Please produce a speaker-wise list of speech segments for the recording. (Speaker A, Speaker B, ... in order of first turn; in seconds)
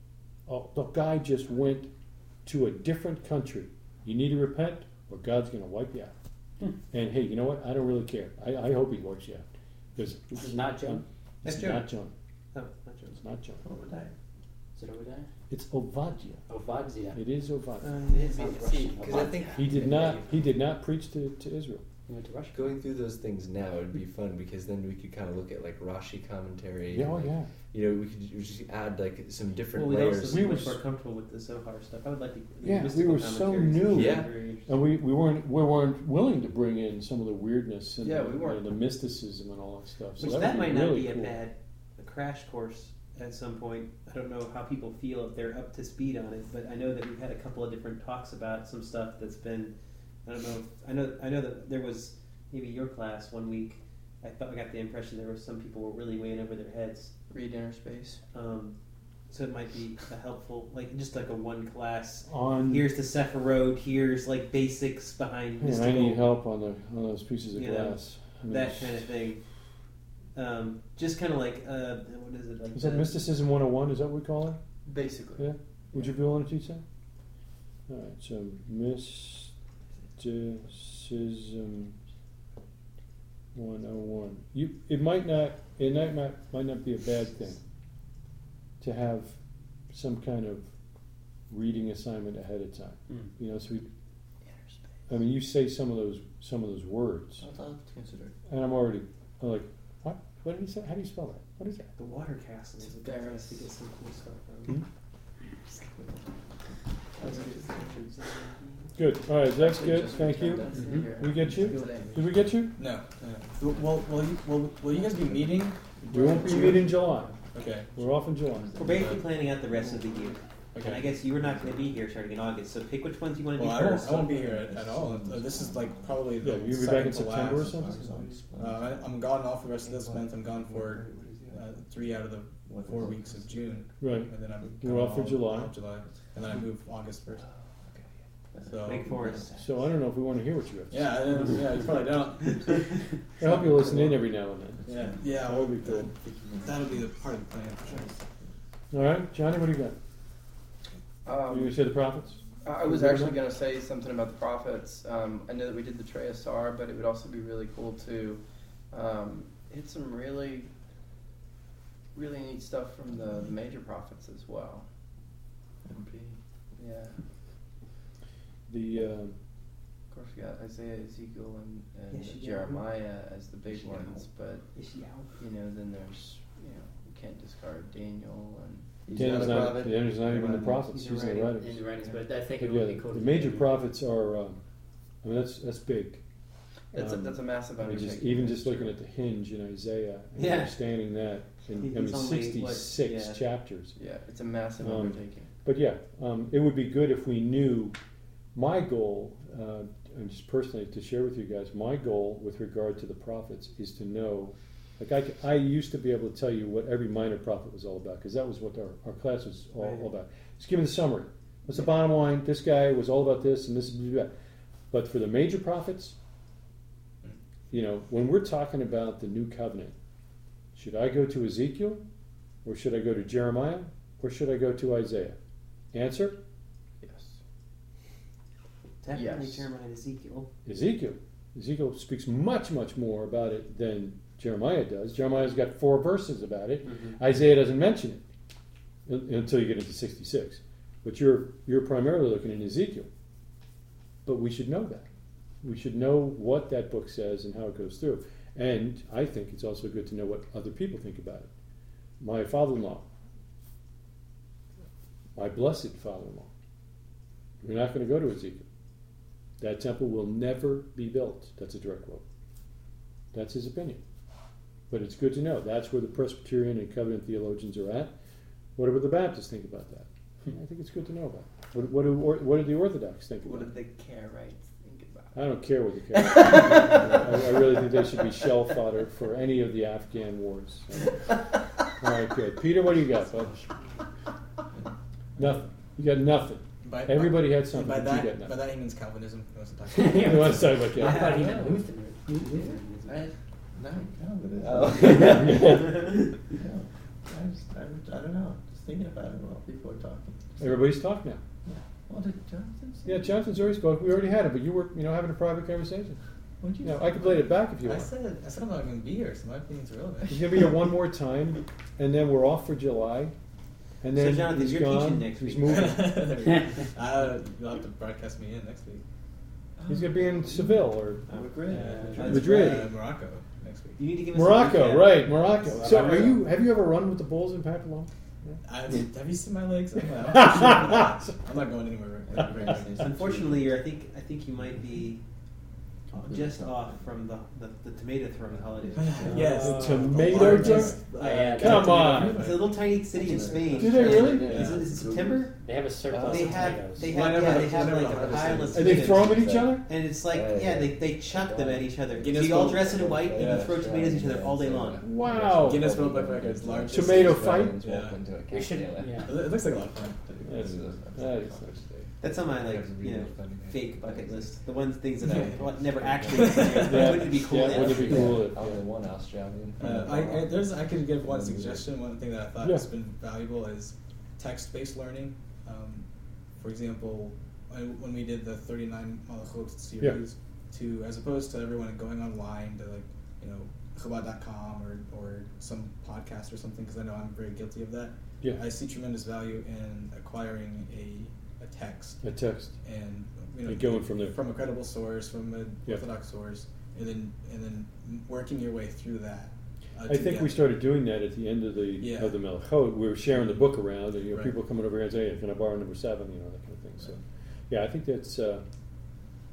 Speaker A: 0.5-1.9, 2.4-6.1, 6.9-12.1, 13.2-13.6, 15.5-16.5, 17.1-17.9, 19.6-21.9, 26.9-27.5, 30.2-30.8, 32.6-41.4, 62.2-62.8, 65.6-69.1, 72.7-74.6, 75.3-76.8, 77.9-79.5, 80.2-82.0, 83.5-87.6, 88.8-90.7, 91.5-93.9, 95.1-97.5, 98.5-101.8, 108.9-112.7, 116.1-118.7, 126.4-128.0, 134.0-135.7, 139.5-141.1, 143.4-146.1, 148.9-150.0, 151.5-153.4, 168.7-169.4, 179.1-181.8, 182.5-184.6, 185.2-186.2, 186.9-193.9, 194.8-198.0, 198.5-214.3, 214.9-216.2, 217.7-219.9, 220.7-222.0, 222.6-225.4, 225.9-226.4, 230.6-238.2, 239.1-243.1, 244.2-245.1, 245.6-251.5, 252.2-253.1, 255.3-256.5, 257.6-258.7, 259.6-262.2, 263.3-264.0, 264.9-268.1, 268.8-273.7, 275.3-283.6, 285.4-288.5, 290.2-291.2, 295.4-295.8, 300.6-301.4, 303.0-306.2, 306.8-308.1, 310.2-313.3, 314.0-316.2, 319.9-321.2, 322.2-322.9, 324.3-329.1, 330.3-331.2, 339.3-342.4, 343.8-344.7, 348.7-349.9, 355.0-355.9, 356.9-357.8, 360.4-361.7, 366.8-368.9, 392.2-392.8, 393.6-394.4, 400.1-408.6
Speaker B: 10.3-11.0, 14.7-15.3, 16.5-17.2, 18.1-20.0, 22.1-22.8, 181.5-183.7, 289.9-293.2, 295.1-295.3, 321.9-322.2, 325.8-326.3, 339.3-339.9, 340.6-342.5, 345.6-347.2, 358.5-359.4
Speaker C: 11.4-11.9, 12.5-13.2, 17.8-19.1, 29.7-34.8, 40.2-57.1, 58.3-58.8, 59.3-66.2, 67.5-69.4, 70.3-73.2, 101.9-104.8, 107.2-108.9, 110.7-112.2, 118.7-124.4, 138.8-139.7, 172.1-172.9, 174.7-175.4, 180.9-181.5, 190.3-190.8, 191.7-193.4, 209.8-210.1, 229.0-230.5, 236.8-237.2, 291.0-291.8, 292.4-292.6, 314.1-316.0, 321.3-323.0, 324.0-326.4, 333.0-335.2, 336.2-340.1, 342.2-345.5, 346.2-355.1, 358.5-358.8, 362.2-368.4
Speaker D: 13.6-14.1, 97.4-98.3, 107.2-107.6, 115.0-115.5, 118.5-119.2, 124.1-129.2, 132.6-133.8, 138.5-139.6, 144.8-147.1, 147.8-148.5, 165.8-166.4, 173.7-174.2, 179.0-180.8, 293.1-295.8, 296.5-300.6, 301.6-303.8, 319.8-322.5, 332.2-333.8, 336.1-337.1, 338.4-341.1, 343.1-345.5, 360.2-361.8
Speaker E: 18.1-20.5, 22.5-30.5, 33.9-34.4, 130.7-131.5, 294.6-295.9, 344.0-344.4, 346.1-346.9, 347.5-359.3, 360.4-364.6, 365.9-371.9
Speaker F: 18.1-18.5, 38.0-38.6, 57.3-58.2, 74.8-76.2, 102.8-103.7, 105.7-106.2, 107.2-112.3, 151.2-151.8, 152.6-160.7, 162.1-164.9, 166.7-167.2, 170.1-174.7, 175.4-178.9, 186.9-188.9, 193.9-195.5, 227.0-227.4, 229.1-229.7, 273.4-275.4, 276.4-278.0
Speaker G: 112.8-118.0, 118.8-119.2, 120.7-121.1, 123.5-127.8, 128.5-137.4, 138.6-139.1, 140.9-144.2, 144.9-148.1, 286.8-290.8, 306.6-310.7, 315.6-319.0, 321.7-324.0, 328.6-333.1, 339.0-342.7, 344.3-344.9, 347.0-349.1, 352.2-353.8, 355.6-358.3, 359.1-360.3, 365.2-367.3, 369.8-392.2, 392.8-400.7, 402.0-402.6, 403.3-404.5